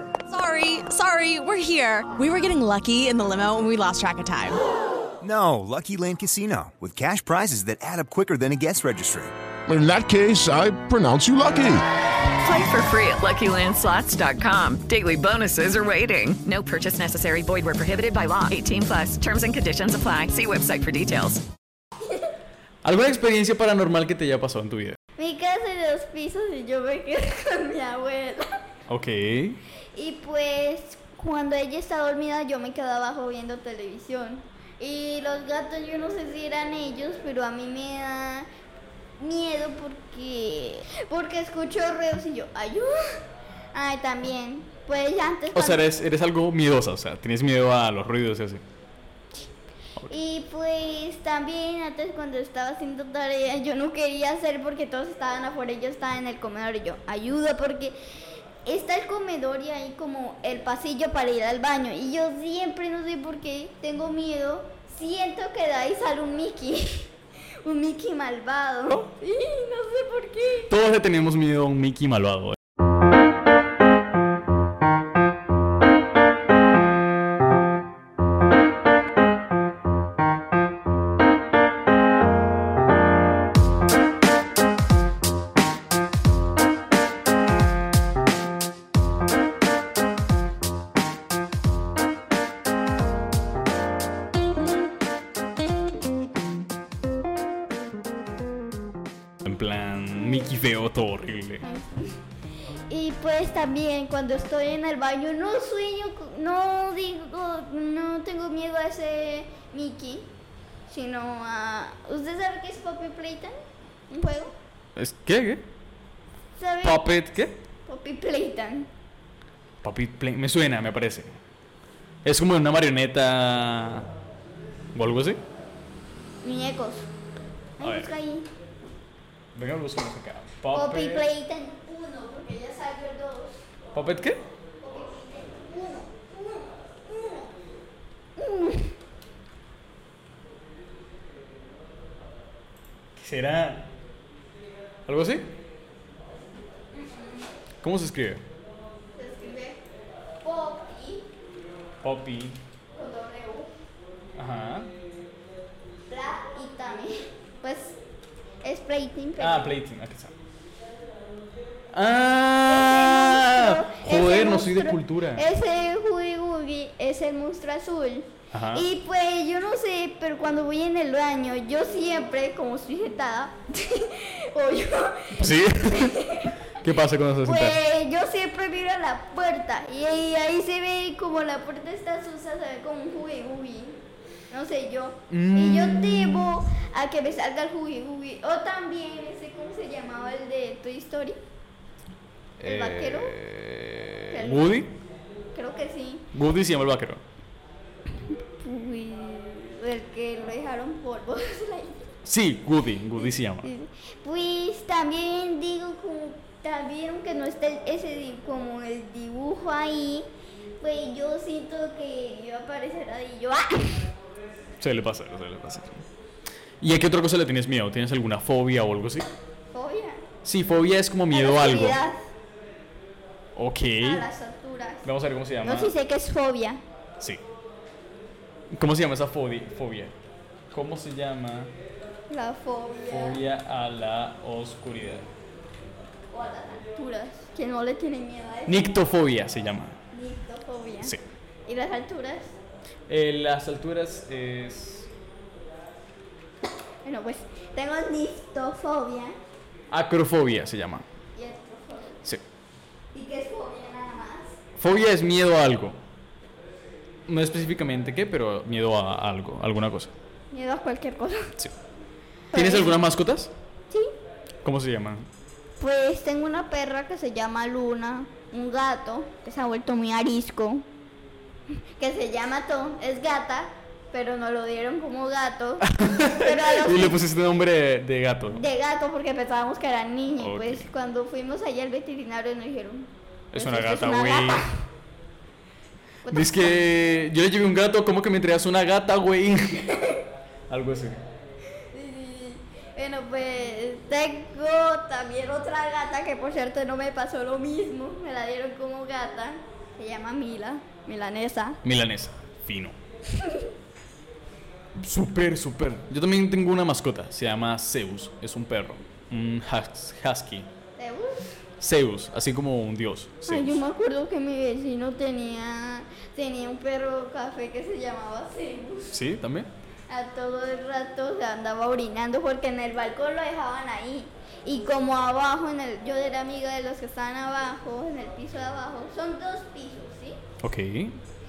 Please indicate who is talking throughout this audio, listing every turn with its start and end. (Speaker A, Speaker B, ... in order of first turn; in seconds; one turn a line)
Speaker A: 0.3-4.6
Speaker B: 5.2-9.3
Speaker C: 9.7-11.8
Speaker D: 12.4-21.4
Speaker E: 22.8-25.0
Speaker F: 25.2-28.5
Speaker E: 28.9-29.6
Speaker F: 29.9-38.5
Speaker F: 39.2-42.9
Speaker F: 43.7-45.8
Speaker E: 45.5-48.6
Speaker F: 50.1-58.0
Speaker F: 58.6-67.1
Speaker F: 67.6-70.7
Speaker E: 70.7-72.6
Speaker E: 99.4-101.6
Speaker F: 101.6-102.1
Speaker F: 102.9-110.3
Speaker F: 110.9-113.5
Speaker F: 114.1-114.5
Speaker E: 115.0-115.6
Speaker F: 116.5-117.0
Speaker E: 116.8-117.6
Speaker F: 117.8-118.9
Speaker E: 119.8-121.4
Speaker E: 122.2-124.1
Speaker E: 124.9-125.4
Speaker F: 126.4-127.1
Speaker F: 127.8-128.5
Speaker E: 127.8-128.1
Speaker E: 129.5-131.3
Speaker F: 130.7-133.6
Speaker E: 133.9-134.4
Speaker F: 134.8-137.5
Speaker F: 138.3-138.9
Speaker E: 143.2-143.9
Speaker E: 145.1-145.5
Speaker F: 146.9-147.5
Speaker E: 147.8-148.4
Speaker F: 149.2-149.8
Speaker F: 150.4-151.3
Speaker E: 152.0-152.6
Speaker F: 152.9-153.7
Speaker E: 154.3-154.9
Speaker F: 156.1-158.0
Speaker F: 158.6-159.7
Speaker E: 159.4-160.3
Speaker E: 161.9-165.4
Speaker F: 162.7-176.6
Speaker E: 168.5-168.8
Speaker E: 175.4-177.8
Speaker F: 177.4-184.0
Speaker F: 184.5-191.4
Speaker E: 185.3-186.4
Speaker E: 192.6-194.9
Speaker F: 192.6-193.3
Speaker F: 194.3-194.8
Speaker F: 195.5-196.3
Speaker E: 196.3-197.2
Speaker F: 198.6-202.1
Speaker E: 202.2-203.7
Speaker F: 203.2-210.3
Speaker F: 210.8-214.1
Speaker E: 214.8-216.0
Speaker E: 216.8-219.3
Speaker F: 219.7-220.2
Speaker E: 220.4-222.0
Speaker F: 221.3-222.1
Speaker E: 223.6-224.2
Speaker F: 224.0-225.0
Speaker E: 225.0-225.9
Speaker F: 225.6-226.8
Speaker E: 228.7-230.1
Speaker E: 230.7-231.7
Speaker F: 232.3-233.4
Speaker E: 233.1-235.3
Speaker F: 236.3-238.9
Speaker E: 238.7-240.0
Speaker F: 240.1-242.5
Speaker E: 243.1-245.1
Speaker F: 247.0-249.3
Speaker E: 249.9-251.0
Speaker F: 251.3-252.2
Speaker F: 253.1-254.6
Speaker E: 254.8-256.0
Speaker E: 257.3-260.1
Speaker F: 260.5-261.5
Speaker F: 262.5-262.9
Speaker E: 262.5-263.5
Speaker E: 264.6-265.3
Speaker F: 265.8-270.9
Speaker F: 271.9-277.2
Speaker E: 275.9-278.6
Speaker F: 278.5-284.8
Speaker E: 280.4-280.9
Speaker E: 283.5-284.6
Speaker F: 286.2-286.8
Speaker E: 286.3-289.9
Speaker E: 290.7-291.2
Speaker F: 291.9-301.8
Speaker E: 301.8-302.9
Speaker F: 303.4-303.7
Speaker E: 305.0-310.7
Speaker F: 311.0-311.6
Speaker E: 311.8-313.8
Speaker F: 313.5-319.2
Speaker E: 319.1-319.7
Speaker F: 320.1-330.4
Speaker E: 330.6-331.2